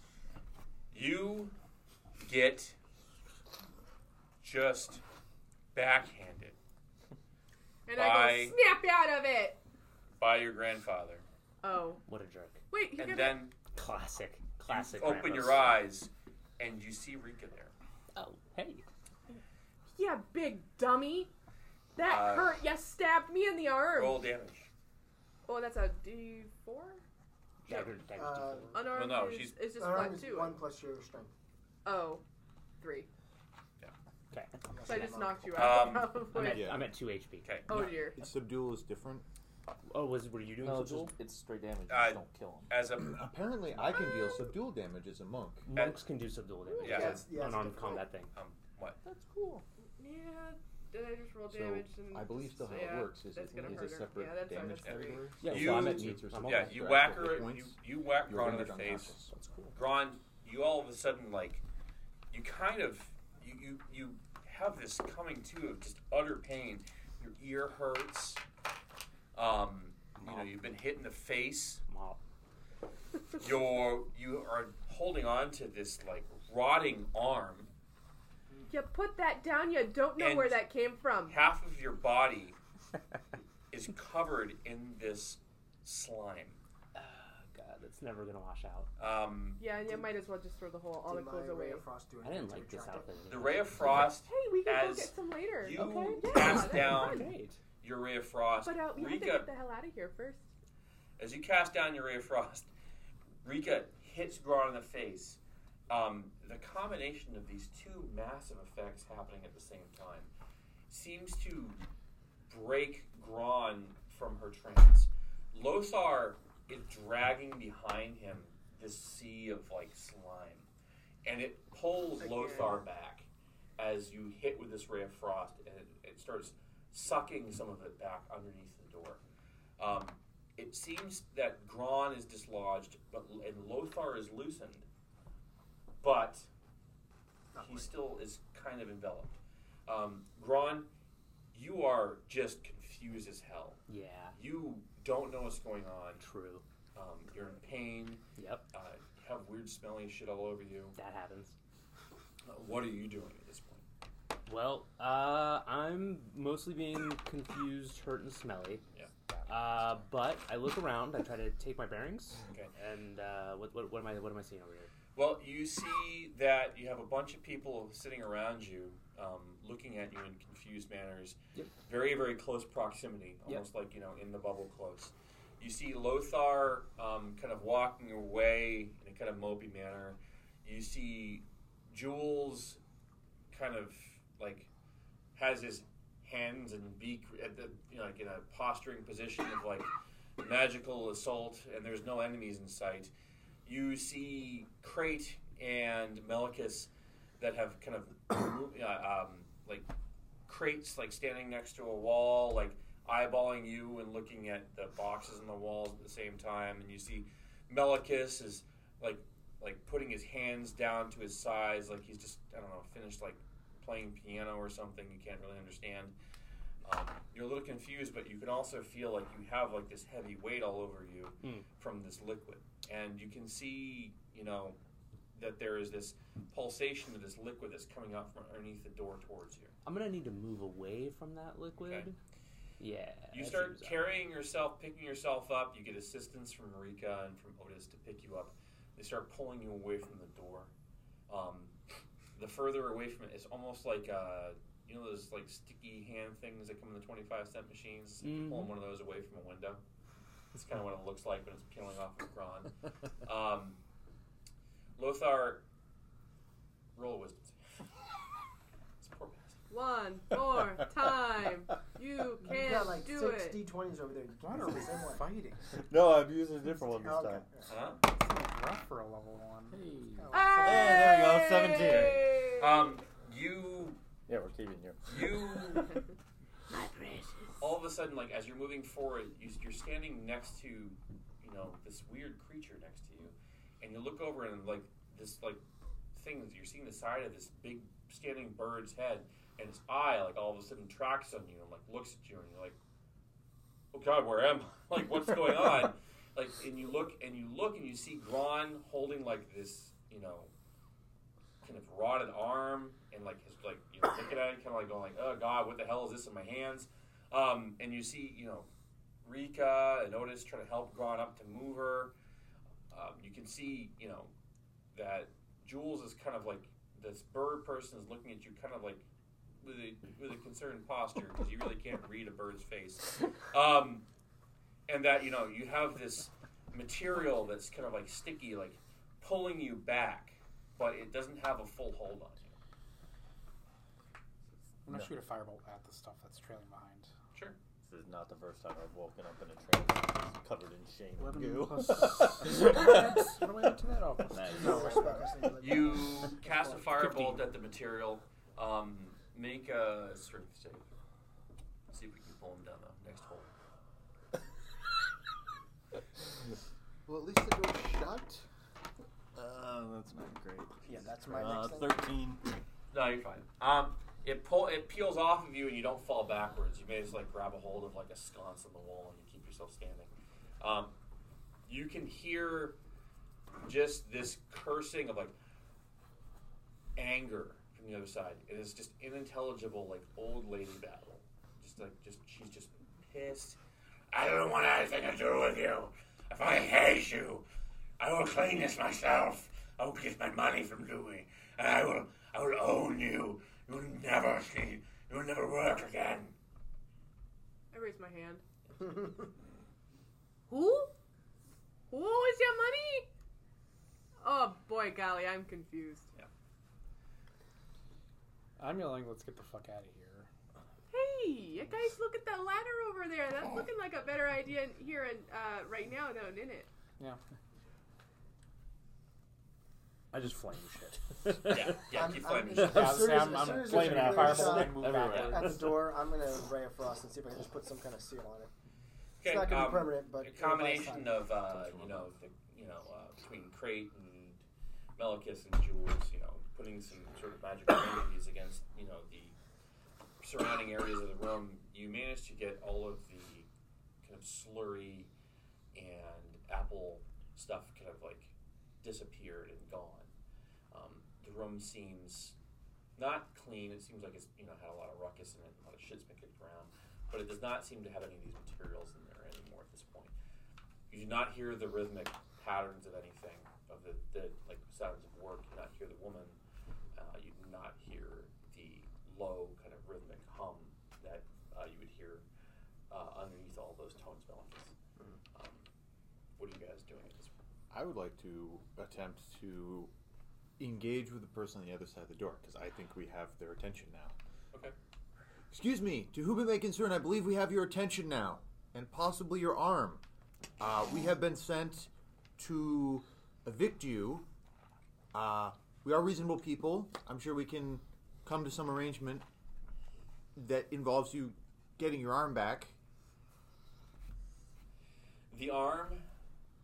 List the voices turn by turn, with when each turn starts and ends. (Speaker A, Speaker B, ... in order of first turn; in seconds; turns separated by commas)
Speaker A: 0.9-1.5, Speaker A: 2.2-2.8, Speaker A: 4.4-5.0, Speaker A: 5.7-6.5, Speaker B: 7.8-9.6, Speaker A: 7.9-8.6, Speaker A: 10.2-11.2, Speaker B: 11.6-12.0, Speaker C: 12.1-12.6, Speaker B: 12.7-13.4, Speaker A: 13.0-13.6, Speaker C: 13.7-15.8, Speaker A: 14.7-17.7, Speaker C: 18.1-18.9, Speaker B: 19.9-21.3, Speaker B: 21.9-24.3, Speaker A: 22.0-22.6, Speaker A: 23.9-24.7, Speaker B: 25.4-27.0, Speaker C: 27.6-28.8, Speaker B: 27.7-27.9, Speaker D: 28.1-28.8, Speaker B: 28.7-30.6, Speaker A: 28.9-29.6, Speaker D: 29.8-31.3, Speaker B: 31.8-32.2, Speaker B: 32.8-33.1, Speaker C: 34.3-35.1, Speaker D: 34.7-35.9, Speaker B: 34.8-36.8, Speaker A: 35.5-36.2, Speaker C: 36.2-37.6, Speaker E: 36.4-36.9, Speaker A: 37.4-37.7, Speaker B: 37.7-38.2, Speaker E: 37.7-39.2, Speaker C: 39.9-41.1, Speaker F: 40.6-42.8, Speaker A: 41.9-43.2, Speaker E: 43.0-45.7, Speaker C: 45.7-48.3, Speaker A: 45.7-46.0, Speaker B: 46.6-46.9, Speaker A: 46.8-47.3, Speaker D: 46.8-48.1, Speaker A: 48.3-49.0, Speaker F: 49.0-49.6, Speaker B: 50.0-55.4, Speaker E: 51.5-59.3, Speaker A: 54.8-59.2, Speaker C: 55.4-57.1, Speaker C: 59.3-59.7, Speaker A: 59.7-61.6, Speaker A: 62.3-68.4, Speaker A: 69.3-71.8, Speaker C: 70.2-70.6, Speaker C: 71.9-72.2, Speaker A: 73.4-77.7, Speaker B: 78.7-81.4, Speaker A: 80.2-80.6, Speaker A: 81.3-82.6, Speaker A: 83.7-86.6, Speaker C: 86.9-88.9, Speaker A: 89.0-89.6, Speaker B: 89.6-91.8, Speaker D: 91.1-93.2, Speaker C: 92.2-94.1, Speaker A: 93.3-97.3, Speaker B: 94.1-97.3, Speaker C: 96.3-97.6, Speaker A: 97.8-99.5, Speaker B: 98.6-100.4, Speaker A: 101.2-102.7, Speaker A: 103.4-110.3, Speaker A: 110.9-111.8, Speaker A: 112.5-120.7, Speaker A: 121.2-129.2, Speaker B: 122.2-122.8, Speaker A: 129.8-134.9, Speaker A: 136.0-136.5, Speaker D: 137.5-137.9, Speaker A: 137.6-140.9, Speaker A: 141.5-143.8, Speaker C: 143.9-144.3, Speaker A: 144.3-146.2, Speaker C: 146.2-146.6, Speaker A: 146.9-150.9, Speaker C: 148.3-148.6, Speaker C: 150.9-151.5, Speaker A: 152.4-153.8, Speaker C: 154.5-158.8, Speaker C: 159.4-164.9, Speaker A: 165.2-182.8, Speaker A: 183.5-184.7, Speaker A: 185.3-193.1, Speaker A: 193.6-199.9, Speaker A: 200.5-216.1, Speaker A: 216.8-224.8, Speaker C: 221.4-221.7, Speaker A: 225.3-229.7, Speaker C: 229.8-232.2, Speaker A: 231.8-232.1, Speaker C: 232.8-234.1, Speaker A: 233.3-240.7, Speaker A: 241.3-241.7, Speaker A: 242.3-249.8, Speaker C: 248.2-248.7, Speaker A: 250.5-253.8, Speaker A: 255.0-255.6, Speaker A: 256.9-257.6, Speaker A: 259.0-259.6, Speaker B: 259.7-263.6, Speaker D: 262.4-265.3, Speaker G: 264.4-265.8, Speaker H: 265.7-267.4, Speaker D: 266.9-267.7, Speaker A: 267.7-268.0, Speaker G: 268.0-271.0, Speaker H: 269.7-272.4, Speaker D: 270.2-271.0, Speaker B: 270.3-272.9, Speaker A: 271.8-274.0, Speaker H: 274.3-276.0, Speaker A: 275.1-275.9, Speaker C: 276.7-277.3, Speaker A: 277.6-285.6, Speaker A: 286.1-292.8, Speaker A: 293.9-300.5, Speaker A: 301.6-308.7, Speaker A: 309.2-312.1, Speaker A: 312.9-314.3, Speaker A: 314.9-319.1, Speaker A: 319.6-324.1, Speaker A: 324.9-332.5, Speaker G: 334.8-337.1, Speaker H: 337.8-343.2, Speaker G: 341.2-345.4, Speaker H: 344.3-345.1, Speaker D: 344.5-347.1, Speaker A: 345.6-350.9, Speaker A: 351.9-353.5, Speaker E: 357.1-358.5, Speaker H: 359.4-362.4, Speaker D: 360.9-362.0, Speaker A: 362.9-370.9, Speaker A: 371.6-372.8, Speaker A: 373.6-375.3, Speaker A: 376.9-383.6, Speaker A: 384.1-387.4, Speaker A: 388.0-396.3, Speaker B: 397.7-398.4, Speaker B: 400.5-400.9, Speaker B: 401.9-403.1, Speaker B: 404.2-406.1, Speaker G: 408.6-410.3, Speaker B: 410.9-416.7, Speaker C: 420.1-421.8, Speaker A: 421.5-423.0, Speaker D: 421.9-428.5, Speaker G: 422.5-425.7, Speaker C: 422.6-423.9, Speaker F: 424.0-425.6, Speaker C: 424.8-425.2, Speaker A: 425.0-425.4, Speaker A: 429.2-434.4, Speaker D: 429.2-432.0, Speaker A: 435.0-439.4, Speaker A: 440.2-443.5, Speaker A: 444.0-445.1, Speaker A: 445.7-450.1, Speaker A: 450.7-452.4, Speaker A: 453.0-460.1, Speaker A: 460.9-466.4, Speaker A: 466.9-472.2, Speaker A: 472.9-474.7, Speaker A: 475.3-475.6, Speaker A: 476.4-477.3, Speaker E: 477.7-479.9, Speaker E: 480.6-484.1, Speaker E: 485.5-490.0, Speaker E: 490.6-494.3, Speaker E: 495.1-499.2, Speaker E: 500.4-502.7, Speaker A: 505.3-506.1